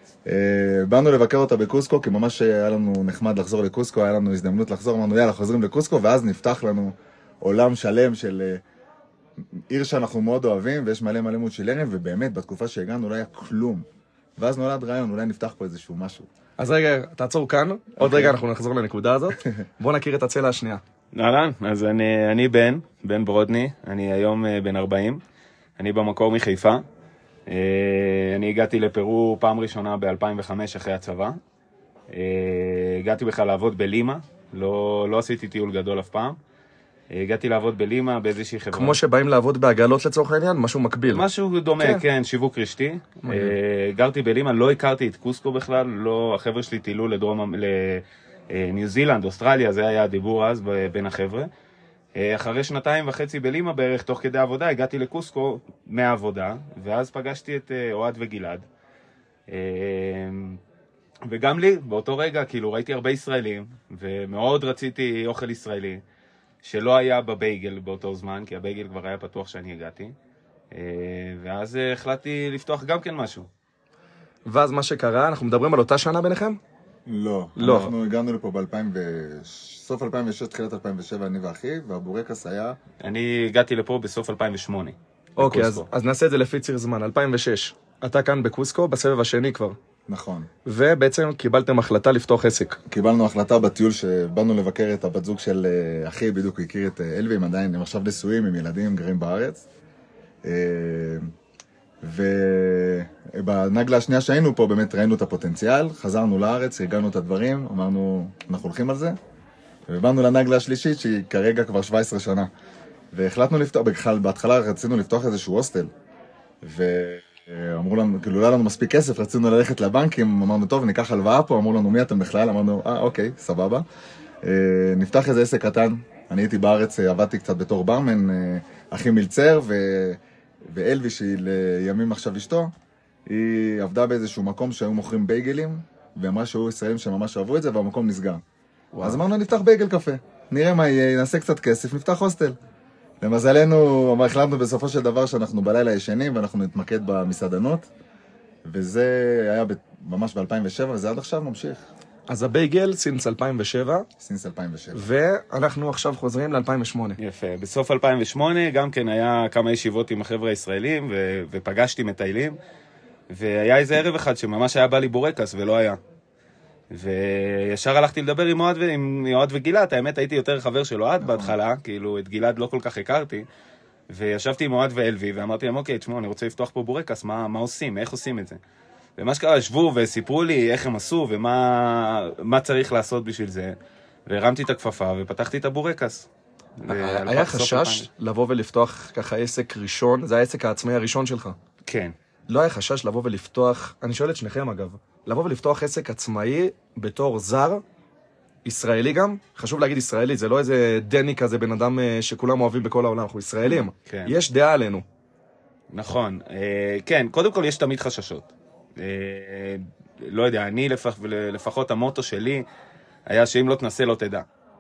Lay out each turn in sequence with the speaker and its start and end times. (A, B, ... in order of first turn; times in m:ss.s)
0:00.3-0:08.6 A
0:09.4-0:13.8 A
0:14.4-0:16.3 A
0:16.6-0:20.8 B
0:18.0-0:18.4 A
0:21.1-0:25.2 C
0:25.8-0:26.8 C
0:27.5-0:31.4 C
0:32.1-0:36.4 C
0:37.1-0:39.0 C
0:38.7-0:41.2 B
0:41.1-0:51.5 C
0:41.8-0:42.0 B
0:43.2-0:43.6 B
0:52.2-0:58.6 C
0:59.5-1:00.6 C
1:01.3-1:06.0 C
1:06.6-1:10.1 C
1:10.7-1:13.5 C
1:14.5-1:16.6 B
1:17.1-1:22.8 A
1:17.6-1:17.9 B
1:23.0-1:25.9 C
1:25.4-1:29.8 B
1:30.1-1:30.5 A
1:30.7-1:32.8 B
1:32.9-1:39.6 A
1:40.4-1:41.3 A
1:42.0-1:49.2 A
1:49.9-1:52.5 A
1:53.1-1:55.9 A
1:56.6-2:03.8 A
2:04.4-2:12.7 A
2:13.3-2:18.4 A
2:18.9-2:19.2 B
2:19.0-2:22.6 A
2:23.2-2:27.9 A
2:28.7-2:31.8 A
2:32.3-2:34.1 B
2:34.2-2:35.0 A
2:34.9-2:37.2 B
2:37.2-2:42.6 C
2:43.3-2:46.0 C
2:46.9-2:53.5 C
2:51.2-2:51.6 A
2:54.1-2:58.6 C
2:59.2-3:03.8 C
3:04.3-3:08.1 C
3:06.9-3:11.6 B
3:11.9-3:12.1 C
3:12.5-3:17.8 B
3:18.7-3:25.0 B
3:23.7-3:24.4 C
3:25.9-3:32.6 C
3:33.3-3:34.4 C